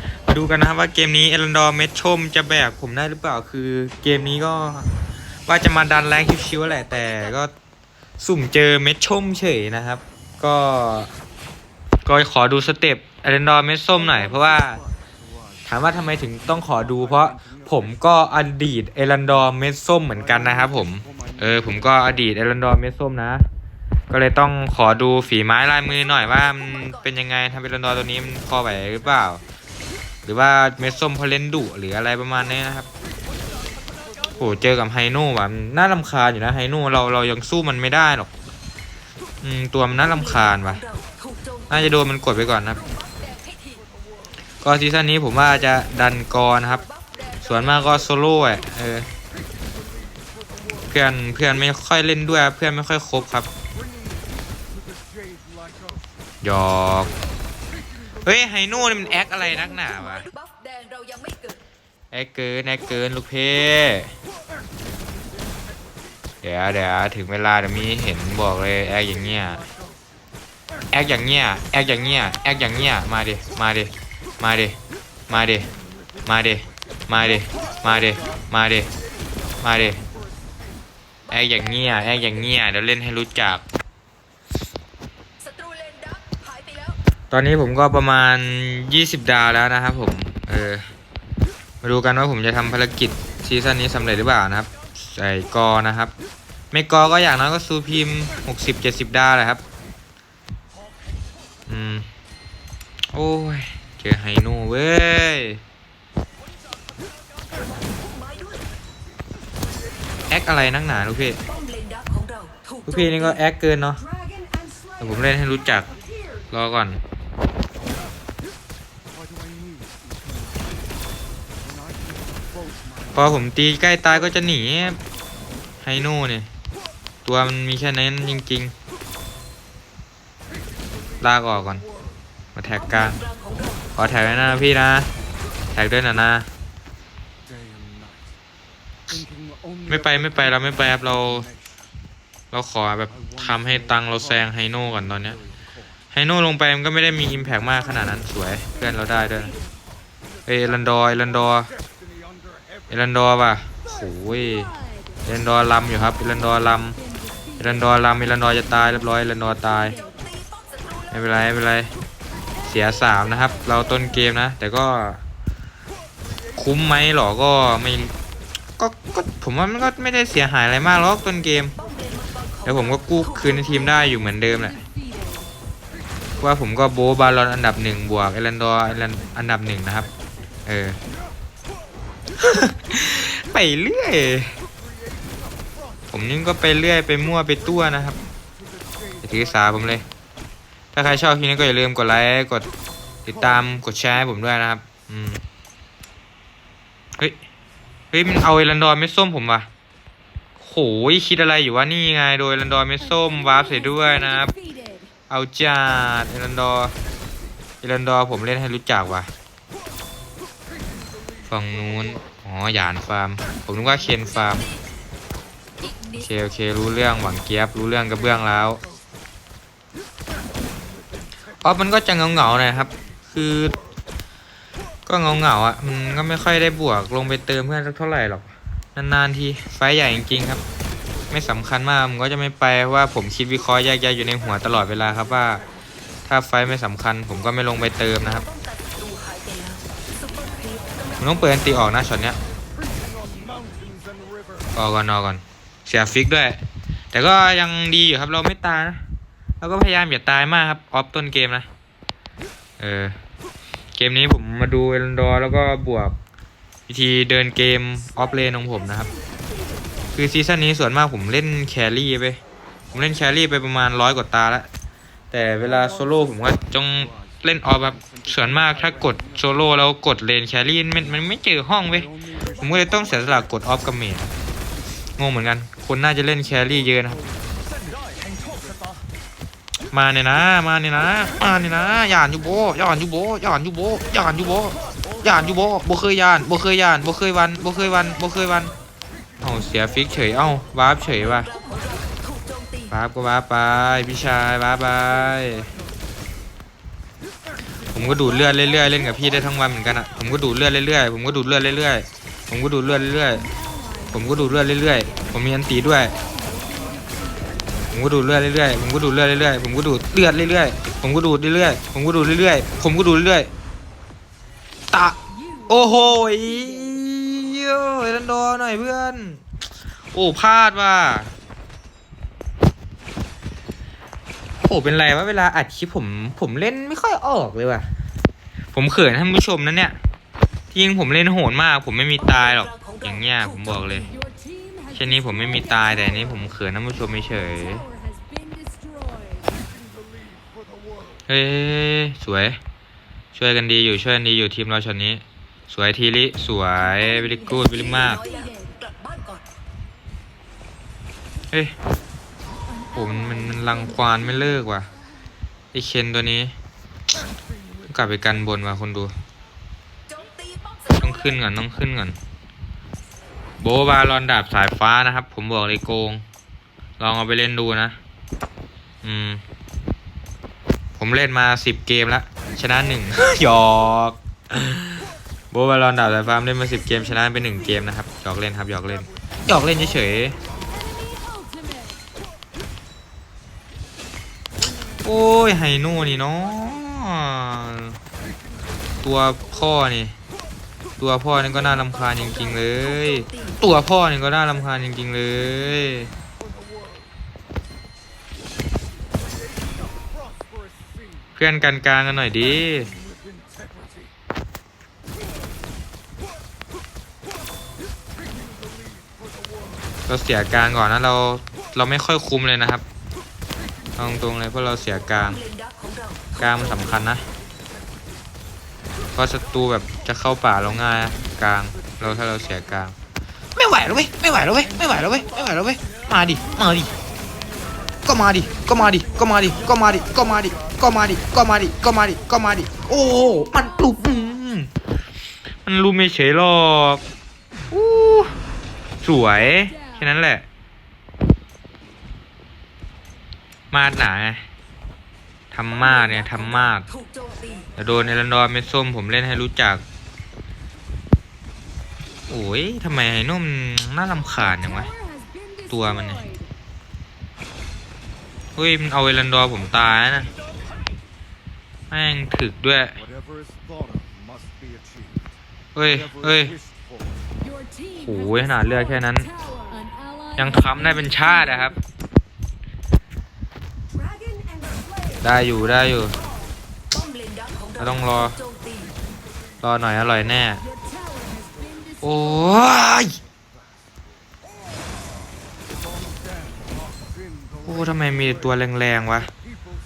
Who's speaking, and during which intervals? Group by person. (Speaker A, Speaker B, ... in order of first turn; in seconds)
Speaker A: 0.3-4.9, 5.5-7.5, 8.2-11.1, 12.1-14.8, 15.7-23.4, 24.1-29.4, 30.2-32.9, 34.4-38.3, 39.4-40.8, 41.7-42.8, 44.6-46.8, 47.4-49.1, 50.9-53.5, 56.4-57.1, 58.2-60.3, 62.1-64.1, 66.4-69.7, 70.9-74.8, 75.3-75.7, 76.3-78.9, 79.6-80.0, 81.3-83.7, 87.3-90.8, 91.8-96.1, 96.7-99.6, 101.7-102.1, 103.1-105.6, 110.3-111.4, 112.9-114.0, 115.0-115.9, 116.5-117.0, 123.1-125.0, 125.8-126.5, 127.2-128.7, 131.2-131.8, 132.6-133.2, 134.0-135.1, 135.7-136.5, 139.9-141.5, 142.5-145.4, 146.1-149.6, 150.5-151.7, 152.9-154.7, 155.2-157.0, 157.6-160.0, 161.1-161.9, 162.7-165.2, 166.6-168.2, 168.8-171.8, 172.7-174.8, 176.4-180.1, 180.7-181.0, 182.4-184.5, 186.1-188.2, 189.2-190.1, 190.9-192.7, 193.2-195.4, 198.1-199.7, 200.6-204.5, 205.3-206.9, 207.8-209.3, 211.5-214.7, 216.2-218.8, 221.6-223.8, 225.1-230.6, 231.3-235.6, 236.3-238.5, 241.2-242.4, 244.8-246.6, 247.1-249.0, 249.6-251.7, 252.8-253.2, 254.0-256.2, 256.9-259.1, 260.1-262.4, 262.9-264.7, 265.3-274.3, 275.2-277.2, 279.9-288.7, 289.4-291.5, 292.9-295.7, 297.9-303.5, 304.1-306.1, 307.9-313.5, 314.9-319.4, 320.1-321.3, 324.6-327.9, 328.7-330.0, 330.7-334.2, 334.9-337.9, 341.3-342.6, 343.3-348.2, 352.9-354.9, 355.7-356.5, 357.9-359.1, 361.0-362.2, 363.6-366.2, 367.0-368.0, 369.0-369.4, 371.0-380.4, 385.0-388.0, 389.0-390.1, 391.0-396.1, 401.4-403.0, 410.1-412.9, 414.0-415.4, 416.4-417.2, 419.1-422.9, 423.6-426.9, 428.1-434.7, 435.6-437.0, 437.7-438.4, 439.0-440.4, 443.7-444.5, 445.5-446.9, 447.8-449.8, 452.3-454.9, 455.7-456.3, 458.6-460.3, 461.9-463.0, 465.8-466.6, 467.9-469.3, 470.4-471.8, 475.2-476.2, 477.8-478.4, 479.6-480.6, 482.0-483.2, 487.7-489.3
Speaker B: 60.4-61.5, 85.5-86.9, 107.9-108.6, 111.7-112.8, 238.8-239.8, 240.4-241.1, 348.3-349.4, 360.1-360.9, 415.7-416.3, 447.2-447.6, 477.0-477.5